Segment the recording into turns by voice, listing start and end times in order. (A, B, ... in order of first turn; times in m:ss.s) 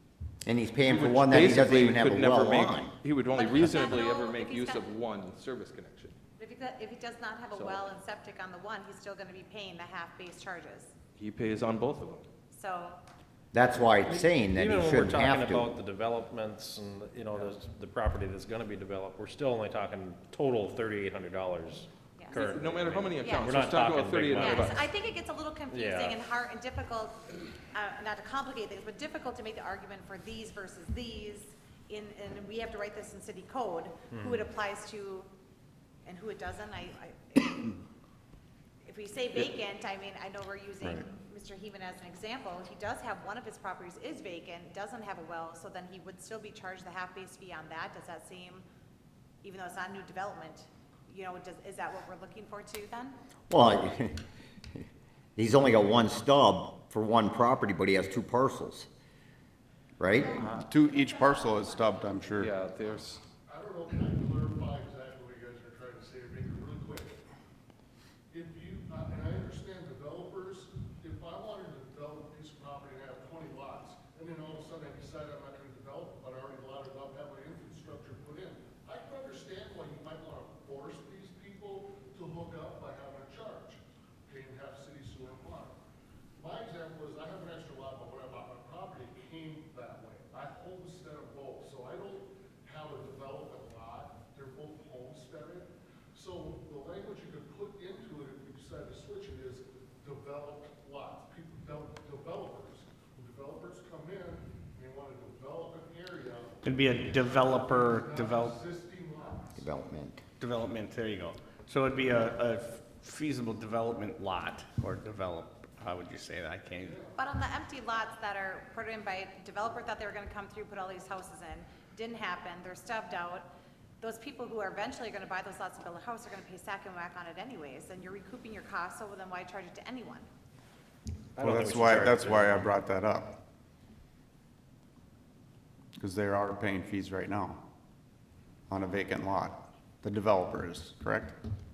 0:00.4-0:03.0 A
0:00.8-0:06.2 B
0:03.4-0:04.8 C
0:06.4-0:10.9 C
0:07.5-0:07.8 B
0:11.2-0:12.2 B
0:12.5-0:13.0 C
0:13.5-0:15.7 A
0:14.1-0:24.8 D
0:22.3-0:24.8 B
0:23.2-0:23.6 C
0:24.4-0:35.3 C
0:25.7-0:26.2 D
0:34.1-0:34.4 D
0:36.0-0:37.8 C
0:38.8-0:48.6 C
0:49.4-0:53.2 C
0:53.5-0:54.2 A
0:55.4-0:58.9 A
1:00.0-1:00.4 A
1:00.1-1:02.5 C
1:00.5-1:02.6 E
1:02.4-1:03.2 B
1:03.4-1:07.2 F
1:08.3-1:25.8 F
1:26.4-1:49.7 F
1:46.6-1:48.6 G
1:49.6-1:50.2 A
1:50.4-1:57.0 G
1:56.8-1:57.2 F
1:57.2-2:03.5 C
2:04.0-2:10.3 C
2:11.4-2:12.7 D
2:11.4-2:13.4 E
2:16.0-2:17.7 E
2:18.7-2:21.4 E